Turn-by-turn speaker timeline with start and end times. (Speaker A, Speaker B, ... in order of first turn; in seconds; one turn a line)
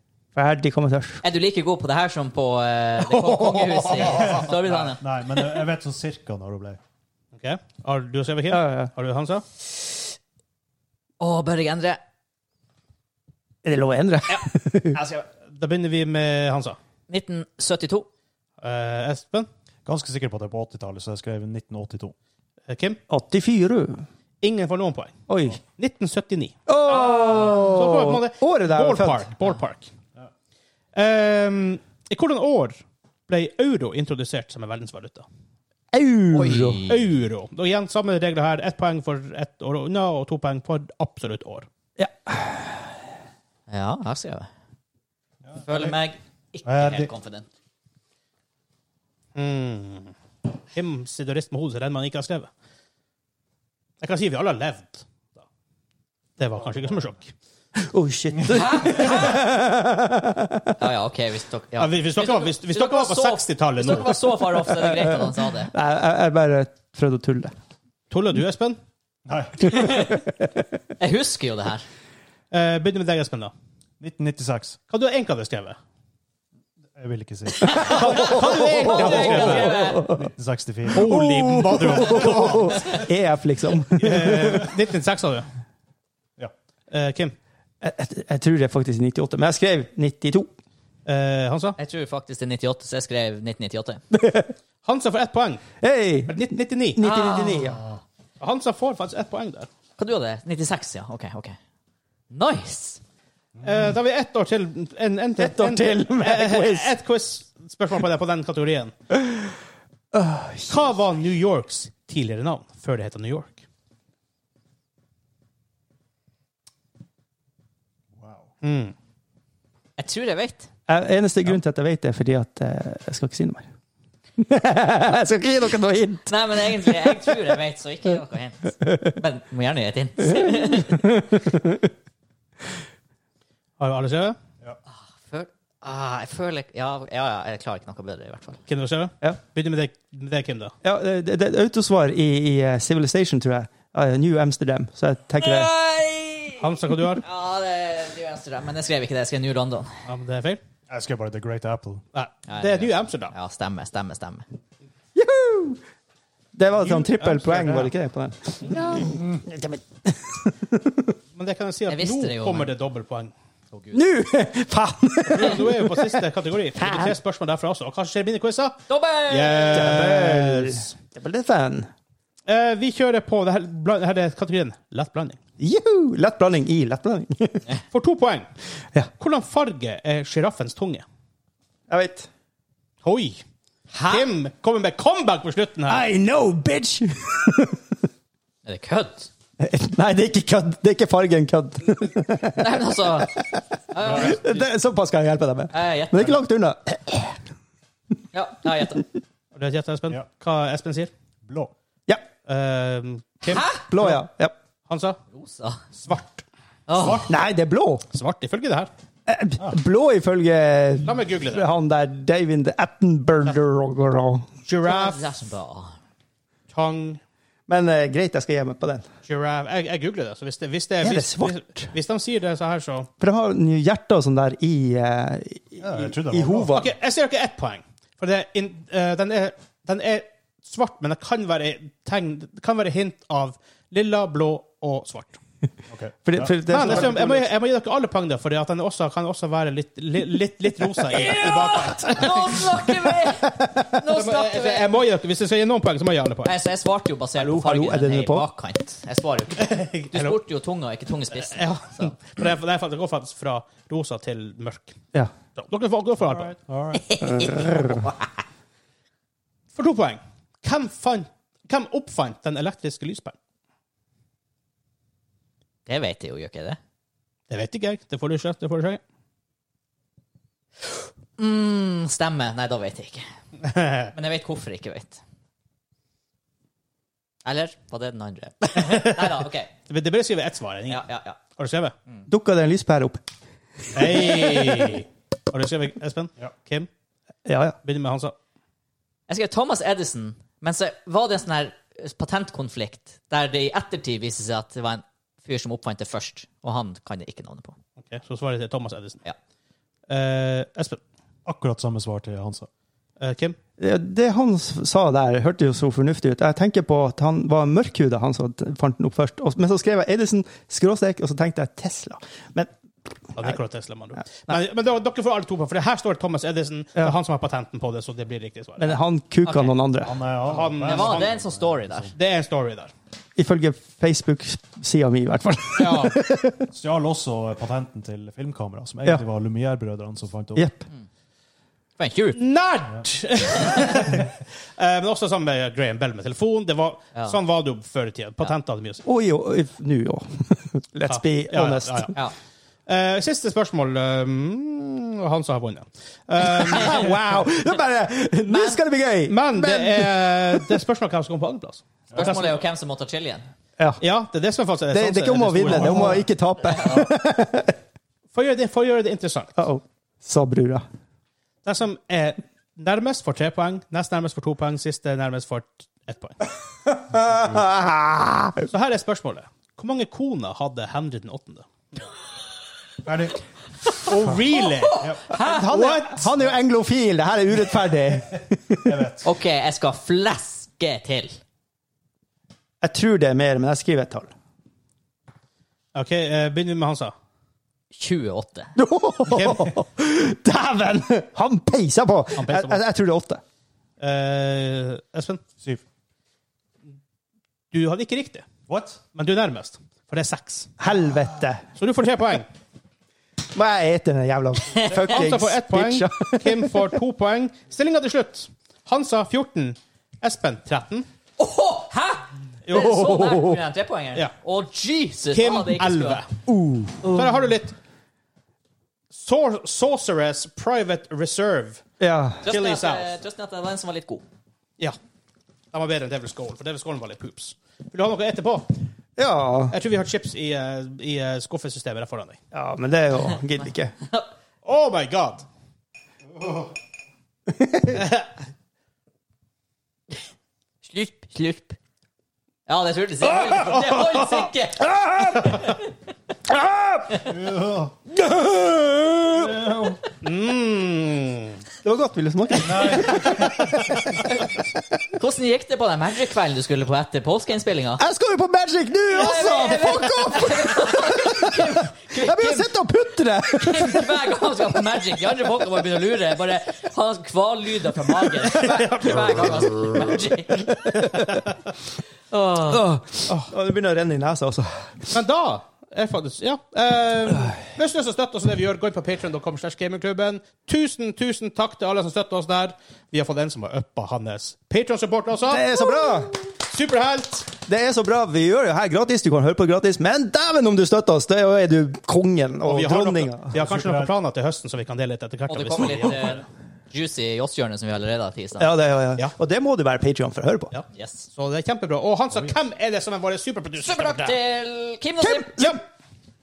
Speaker A: 0.3-1.2
Speaker B: 1.2-5.0
Speaker A: 3.2-3.8
Speaker C: 3.9-6.8
Speaker D: 7.4-9.4
Speaker A: 8.5-8.9
Speaker B: 11.2-12.0
Speaker A: 13.6-15.0
Speaker B: 14.3-15.3
Speaker D: 15.5-16.8
Speaker B: 17.1-18.1
Speaker D: 18.6-19.5
Speaker C: 19.9-22.1
Speaker D: 22.7-23.0
Speaker A: 23.1-24.0
Speaker D: 24.4-29.9
Speaker A: 25.3-25.6
Speaker A: 26.7-29.3
Speaker D: 30.9-32.8
Speaker D: 33.3-35.3
Speaker A: 35.9-36.8
Speaker B: 36.3-37.1
Speaker D: 36.9-41.7
Speaker A: 42.0-42.9
Speaker B: 43.7-44.5
Speaker C: 45.5-46.0
Speaker B: 45.6-47.5
Speaker C: 46.6-47.1
Speaker D: 49.4-50.1
Speaker D: 50.7-52.5
Speaker D: 54.0-55.4
Speaker D: 56.4-57.3
Speaker A: 57.8-60.8
Speaker B: 58.5-59.4
Speaker B: 60.8-65.7
Speaker D: 61.8-64.2
Speaker A: 64.5-67.5
Speaker D: 68.1-68.8
Speaker C: 69.3-70.1
Speaker A: 69.7-70.7
Speaker B: 69.7-70.2
Speaker B: 71.0-71.8
Speaker D: 72.5-73.5
Speaker C: 74.0-74.8
Speaker D: 74.9-75.8
Speaker C: 77.0-78.3
Speaker B: 77.6-80.0
Speaker A: 77.6-80.3
Speaker D: 77.7-79.8
Speaker C: 80.1-83.1
Speaker A: 80.9-84.7
Speaker D: 80.9-83.0
Speaker D: 84.0-85.5
Speaker C: 84.2-84.7
Speaker D: 86.9-87.3
Speaker A: 87.8-90.5
Speaker D: 91.1-91.8
Speaker B: 91.8-94.0
Speaker A: 94.1-94.5
Speaker D: 94.8-95.6
Speaker A: 95.8-97.8
Speaker D: 96.3-97.0
Speaker B: 97.0-97.9
Speaker D: 98.4-99.7
Speaker B: 100.0-101.6
Speaker B: 102.3-103.0
Speaker D: 103.6-108.9
Speaker A: 105.4-106.9
Speaker A: 109.1-109.5
Speaker A: 110.1-110.8
Speaker D: 110.7-113.6
Speaker C: 118.2-118.5
Speaker D: 118.6-118.9
Speaker B: 120.0-120.7
Speaker A: 120.9-123.7
Speaker A: 124.4-127.5
Speaker B: 126.3-131.1
Speaker A: 128.9-129.2
Speaker A: 130.2-131.9
Speaker D: 133.8-134.4
Speaker B: 134.9-138.6
Speaker D: 138.7-140.7
Speaker A: 140.8-145.7
Speaker B: 145.4-146.7
Speaker D: 146.6-147.2
Speaker B: 147.2-150.0
Speaker D: 150.1-150.6
Speaker C: 150.9-152.0
Speaker D: 152.1-153.3
Speaker B: 152.5-154.4
Speaker A: 155.2-155.8
Speaker A: 156.5-161.2
Speaker D: 156.8-157.9
Speaker D: 161.4-163.3
Speaker B: 161.9-162.7
Speaker B: 163.7-164.0
Speaker A: 163.9-166.2
Speaker D: 165.3-170.9
Speaker A: 166.8-167.1
Speaker B: 168.9-170.1
Speaker A: 169.7-171.9
Speaker D: 172.5-175.4
Speaker A: 175.6-177.6
Speaker D: 177.9-178.5
Speaker D: 179.2-181.0
Speaker A: 181.9-182.3
Speaker D: 183.0-183.4
Speaker B: 183.9-184.3
Speaker D: 184.1-186.0
Speaker A: 185.9-187.9
Speaker B: 188.7-189.3
Speaker A: 189.6-197.3
Speaker B: 192.6-194.6
Speaker C: 194.0-194.4
Speaker B: 195.7-196.4
Speaker B: 198.3-199.0
Speaker D: 199.5-201.1
Speaker C: 201.5-201.7
Speaker D: 202.5-204.2
Speaker B: 203.4-203.9
Speaker A: 203.9-204.6
Speaker D: 204.9-205.2
Speaker B: 205.3-205.8
Speaker D: 206.0-206.4
Speaker B: 206.9-207.3
Speaker C: 206.9-207.3
Speaker A: 207.3-208.1
Speaker D: 208.1-208.9
Speaker A: 209.3-214.5
Speaker D: 211.0-211.7
Speaker D: 214.7-215.3
Speaker B: 214.8-216.0
Speaker D: 216.7-217.2
Speaker A: 217.7-219.1
Speaker D: 219.3-223.1
Speaker A: 221.0-221.9
Speaker A: 223.2-226.9
Speaker C: 225.8-226.8
Speaker D: 226.7-235.4
Speaker C: 235.9-237.1
Speaker A: 236.2-237.5
Speaker D: 236.7-242.7
Speaker B: 241.1-244.9
Speaker A: 241.2-242.4
Speaker A: 243.1-243.9
Speaker D: 244.1-246.5
Speaker B: 246.4-252.2
Speaker A: 247.4-248.5
Speaker D: 249.6-250.4
Speaker D: 251.4-255.0
Speaker D: 255.6-256.6
Speaker C: 256.2-257.0
Speaker B: 256.9-258.4
Speaker A: 257.2-258.1
Speaker D: 259.8-263.4
Speaker B: 265.9-266.8
Speaker D: 267.5-269.0
Speaker B: 271.4-273.3
Speaker D: 273.6-274.1
Speaker B: 274.1-275.2
Speaker B: 277.4-279.7
Speaker D: 278.8-279.3
Speaker D: 279.9-281.9
Speaker B: 280.9-281.4
Speaker A: 282.3-283.2
Speaker D: 283.9-286.9
Speaker A: 284.0-284.5
Speaker A: 287.5-287.8
Speaker D: 287.8-288.3
Speaker B: 289.3-297.8
Speaker D: 298.0-299.2
Speaker D: 300.1-301.0
Speaker C: 301.5-302.7
Speaker D: 303.2-303.6
Speaker A: 303.8-312.7
Speaker D: 313.4-319.0
Speaker A: 318.8-320.2
Speaker B: 319.4-319.8
Speaker C: 320.0-322.1
Speaker D: 320.4-321.4
Speaker B: 320.9-322.1
Speaker D: 322.1-322.9
Speaker A: 323.4-326.7
Speaker D: 325.8-326.2
Speaker C: 326.7-330.7
Speaker A: 330.6-330.9
Speaker B: 332.0-332.4
Speaker D: 332.4-339.0
Speaker A: 339.1-342.1
Speaker D: 341.1-342.2
Speaker D: 342.9-347.2
Speaker A: 346.4-350.8
Speaker B: 348.5-348.8
Speaker D: 349.3-352.6
Speaker B: 352.1-353.5
Speaker D: 354.0-356.2
Speaker A: 354.9-357.8
Speaker C: 355.7-356.2
Speaker D: 358.3-359.6
Speaker A: 359.6-360.9
Speaker D: 361.6-366.4
Speaker A: 366.9-368.7
Speaker C: 367.2-367.6
Speaker D: 368.7-371.7
Speaker C: 373.0-373.4
Speaker C: 373.9-374.4
Speaker D: 374.1-376.4
Speaker B: 374.7-375.8
Speaker A: 375.3-379.1
Speaker C: 378.8-379.3
Speaker B: 379.2-381.4
Speaker A: 382.8-384.3
Speaker D: 385.9-387.1
Speaker B: 387.9-388.7
Speaker A: 388.8-393.4
Speaker D: 389.3-389.7
Speaker D: 392.4-392.8
Speaker D: 394.0-395.4
Speaker D: 397.7-398.4
Speaker C: 398.7-399.0
Speaker D: 399.1-400.7
Speaker A: 400.8-401.6
Speaker D: 401.8-402.5
Speaker A: 403.5-406.9
Speaker D: 404.9-411.1
Speaker B: 411.4-416.2
Speaker D: 412.7-413.5
Speaker D: 415.3-416.3
Speaker A: 416.5-417.2
Speaker D: 417.1-417.8
Speaker D: 419.1-421.8
Speaker A: 422.0-422.4
Speaker D: 422.4-423.1
Speaker B: 422.4-424.2
Speaker D: 425.7-428.7
Speaker A: 429.2-429.8
Speaker D: 429.7-432.4
Speaker A: 432.5-433.9
Speaker D: 434.6-435.5
Speaker A: 437.5-438.1
Speaker D: 437.9-438.3
Speaker B: 440.8-441.8
Speaker B: 442.7-445.9
Speaker A: 444.8-445.7
Speaker A: 446.5-447.4
Speaker C: 447.2-447.9
Speaker A: 448.1-450.0
Speaker C: 449.3-450.0
Speaker D: 450.2-451.6
Speaker A: 451.8-454.6
Speaker C: 452.6-454.0
Speaker B: 455.2-458.0
Speaker A: 458.0-464.2
Speaker B: 459.1-462.7
Speaker B: 463.5-471.2
Speaker D: 468.6-469.4
Speaker A: 470.8-471.4
Speaker B: 472.3-472.9
Speaker A: 472.7-475.1
Speaker D: 475.1-485.7
Speaker A: 485.5-486.4
Speaker D: 486.5-487.5
Speaker A: 487.6-493.5
Speaker D: 492.6-496.4
Speaker C: 493.5-494.1
Speaker B: 495.5-498.7
Speaker A: 498.6-500.7
Speaker D: 500.7-504.4
Speaker B: 500.9-501.3
Speaker B: 503.8-505.6
Speaker A: 505.2-505.8